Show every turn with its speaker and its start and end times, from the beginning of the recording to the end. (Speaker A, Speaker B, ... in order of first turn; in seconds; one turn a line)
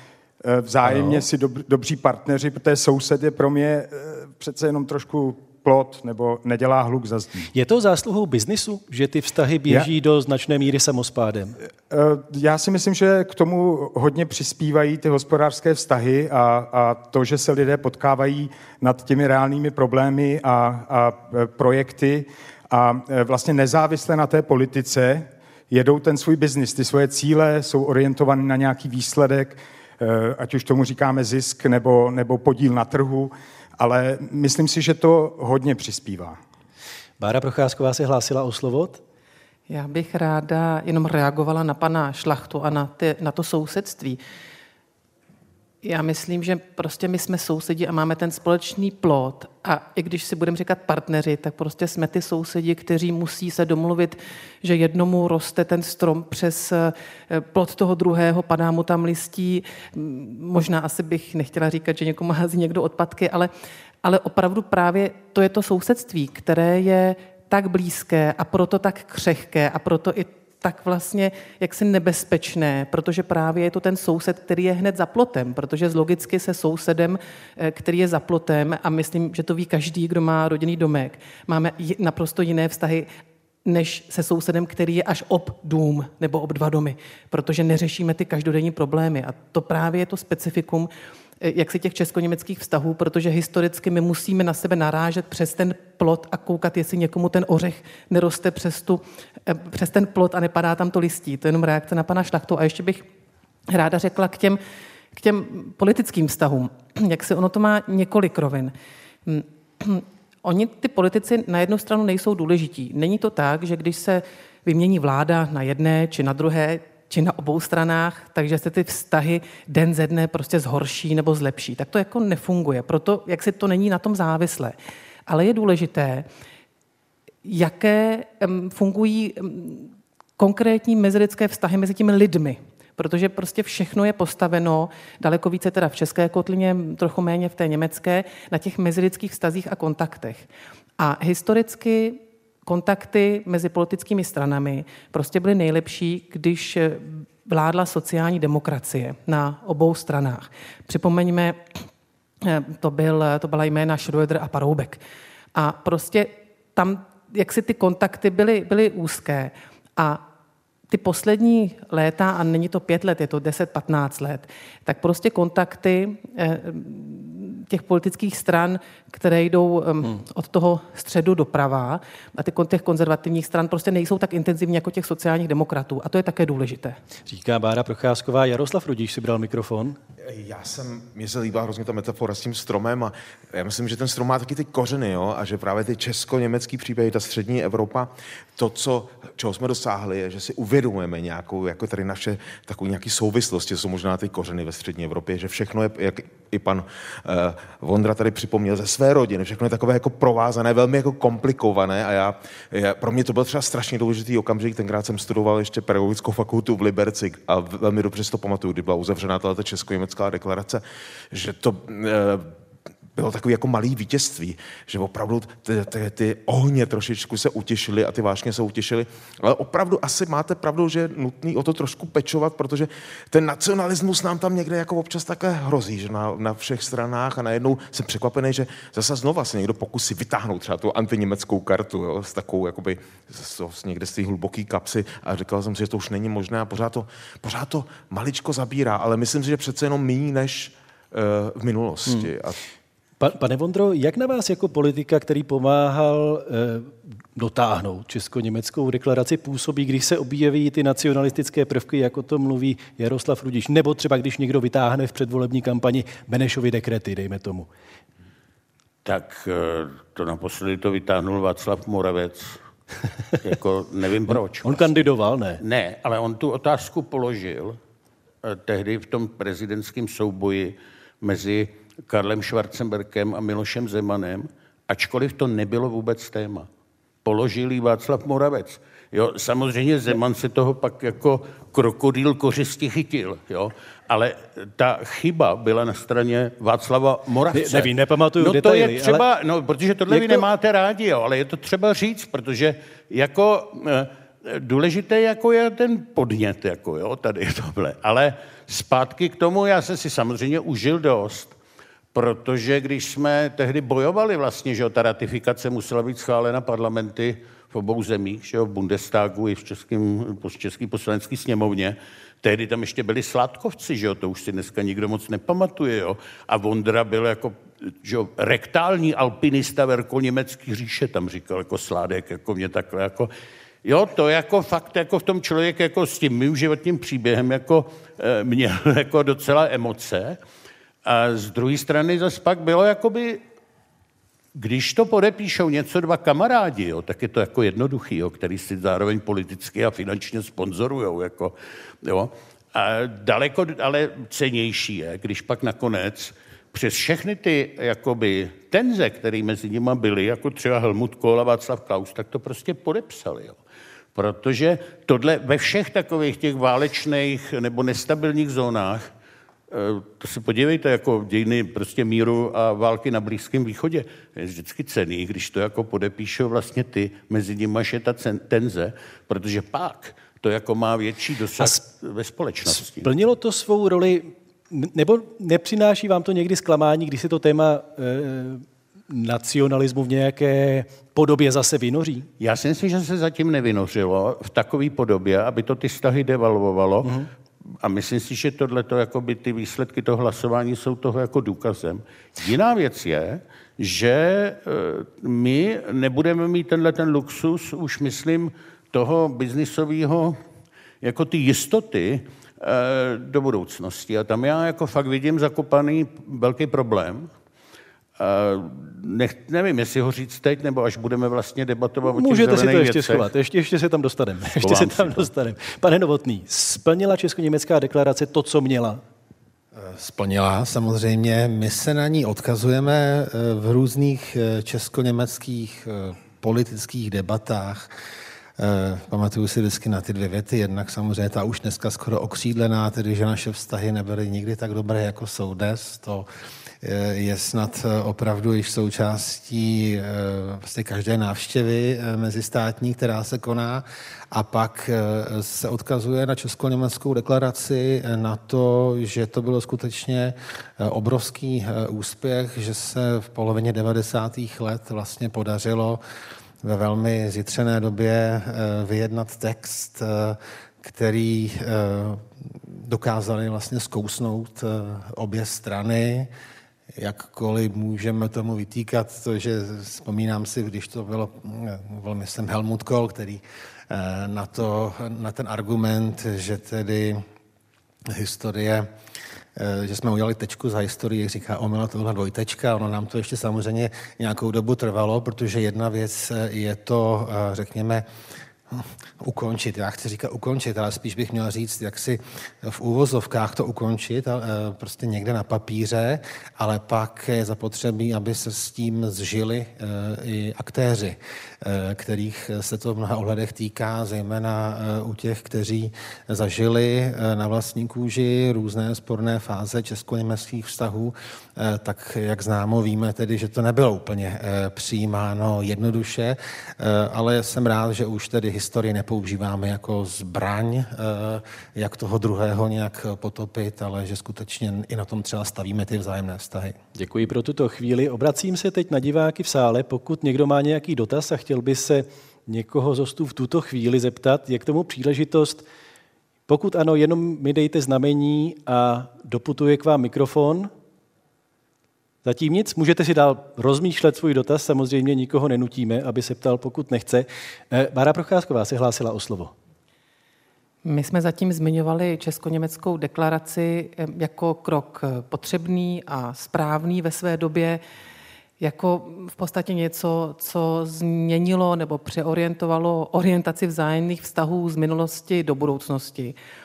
Speaker A: 0.4-7.5
Speaker B: 0.8-1.2
Speaker B: 7.5-11.6
Speaker A: 11.9-36.4
Speaker B: 37.2-39.0
Speaker C: 39.7-44.2
Speaker C: 45.8-63.5
Speaker C: 64.0-83.1
Speaker C: 83.6-90.9
Speaker C: 91.4-103.0
Speaker C: 103.7-104.6
Speaker C: 105.1-108.7
Speaker C: 109.2-124.8
Speaker C: 125.3-126.2
Speaker C: 127.4-140.5
Speaker C: 141.0-151.6
Speaker C: 152.4-155.0
Speaker C: 155.5-160.2
Speaker C: 160.9-177.0
Speaker B: 177.3-180.0
Speaker D: 180.2-212.5
Speaker D: 213.1-242.6
Speaker B: 243.2-257.7
Speaker E: 259.0-262.6
Speaker E: 263.4-264.9
Speaker B: 264.3-265.6
Speaker E: 265.6-267.8
Speaker E: 268.4-276.7
Speaker E: 277.2-301.6
Speaker B: 287.5-289.2
Speaker B: 290.1-290.4
Speaker E: 302.1-323.3
Speaker E: 323.8-330.4
Speaker E: 331.1-333.4
Speaker E: 334.5-353.6
Speaker E: 354.1-359.1
Speaker E: 359.7-373.1
Speaker B: 372.7-382.3
Speaker E: 382.4-387.1
Speaker E: 387.8-400.4
Speaker E: 401.0-407.3
Speaker E: 408.2-413.3
Speaker B: 412.0-419.0
Speaker E: 414.6-415.3
Speaker F: 419.7-427.9
Speaker F: 428.6-436.3
Speaker F: 436.8-456.0
Speaker F: 456.6-466.3
Speaker F: 467.0-477.2
Speaker F: 478.1-478.9
Speaker F: 479.6-488.0
Speaker F: 488.7-526.8
Speaker B: 527.0-535.6
Speaker B: 536.5-540.7
Speaker B: 542.2-549.5
Speaker C: 550.8-557.8
Speaker C: 558.6-566.3